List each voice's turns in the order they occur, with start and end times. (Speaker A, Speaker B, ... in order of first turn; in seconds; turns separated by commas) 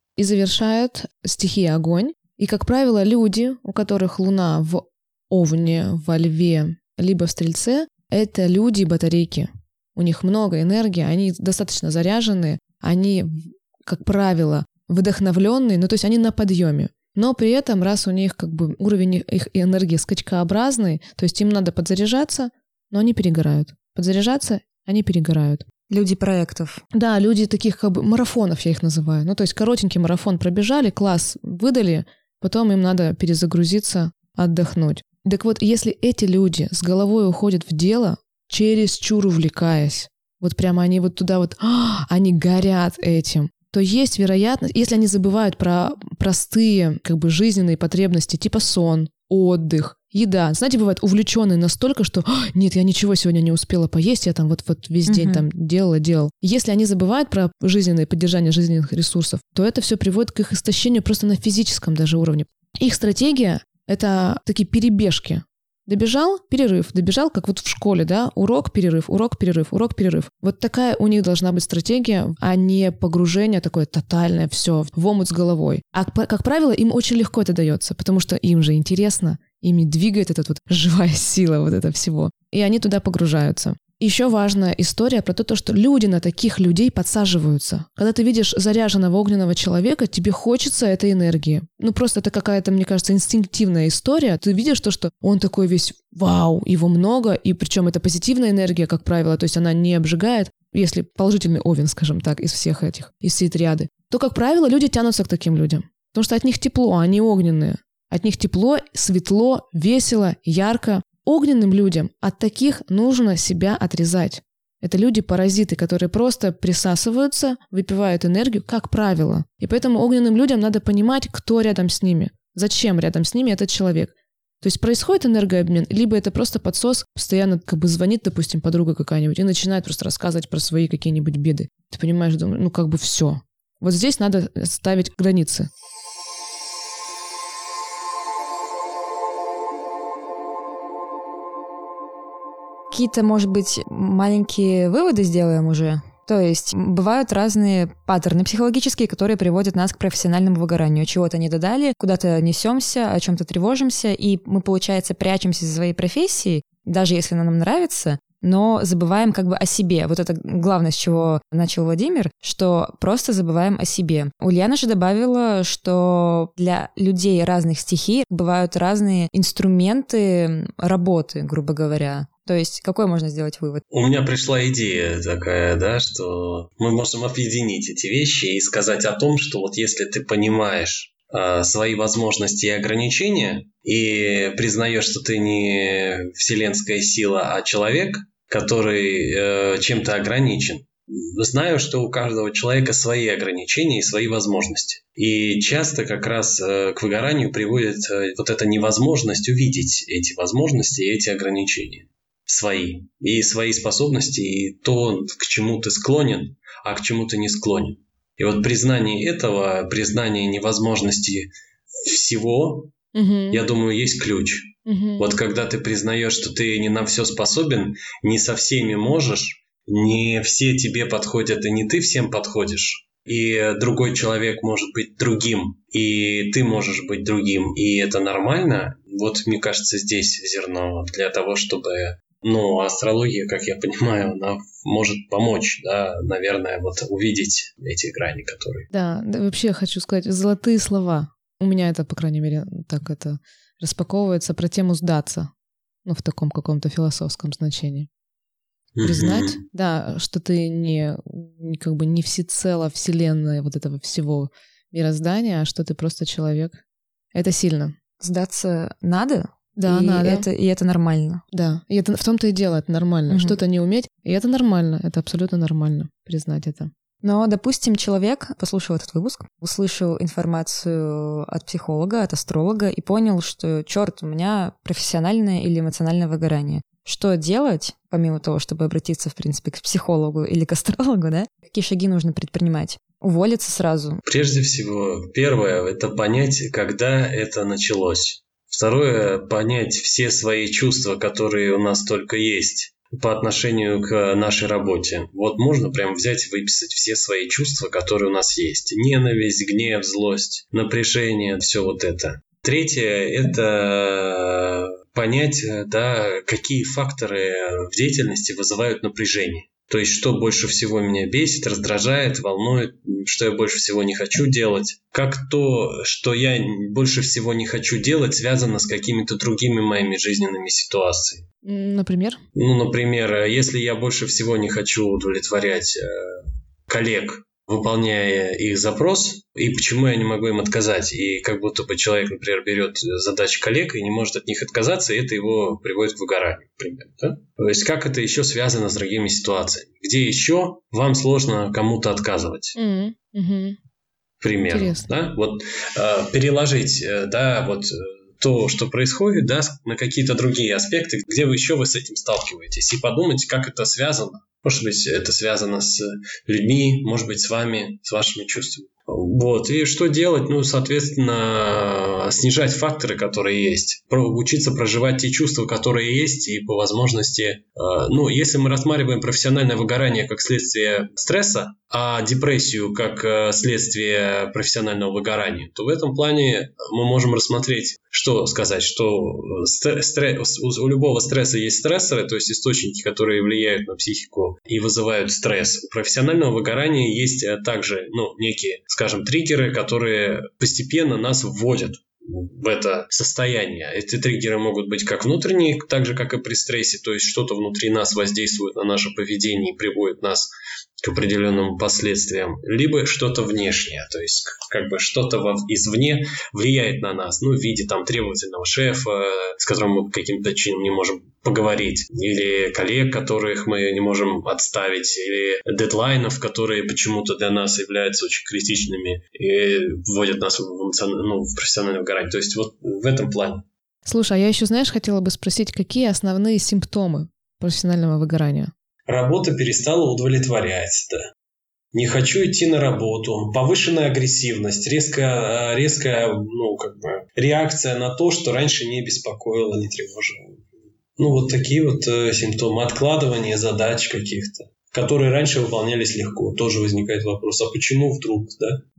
Speaker A: 0.2-25.6, Speaker B: 25.9-26.8, Speaker A: 26.9-135.7, Speaker B: 55.0-55.5, Speaker B: 142.9-173.8, Speaker C: 173.9-211.5, Speaker C: 212.0-212.9, Speaker A: 213.1-213.6, Speaker C: 213.5-238.9, Speaker A: 214.8-215.3, Speaker A: 238.9-245.5, Speaker A: 246.0-248.1, Speaker C: 248.9-249.6, Speaker A: 249.0-256.8, Speaker A: 257.3-257.9, Speaker B: 258.2-261.4, Speaker A: 259.8-260.5, Speaker A: 261.5-266.9, Speaker B: 263.3-263.6, Speaker B: 267.2-284.2, Speaker C: 284.2-321.4, Speaker A: 321.6-322.4, Speaker C: 322.6-342.8, Speaker A: 342.8-343.8, Speaker C: 344.4-423.6, Speaker A: 344.7-345.1, Speaker A: 424.0-428.7, Speaker C: 429.1-431.2, Speaker C: 431.9-440.6, Speaker C: 441.2-448.8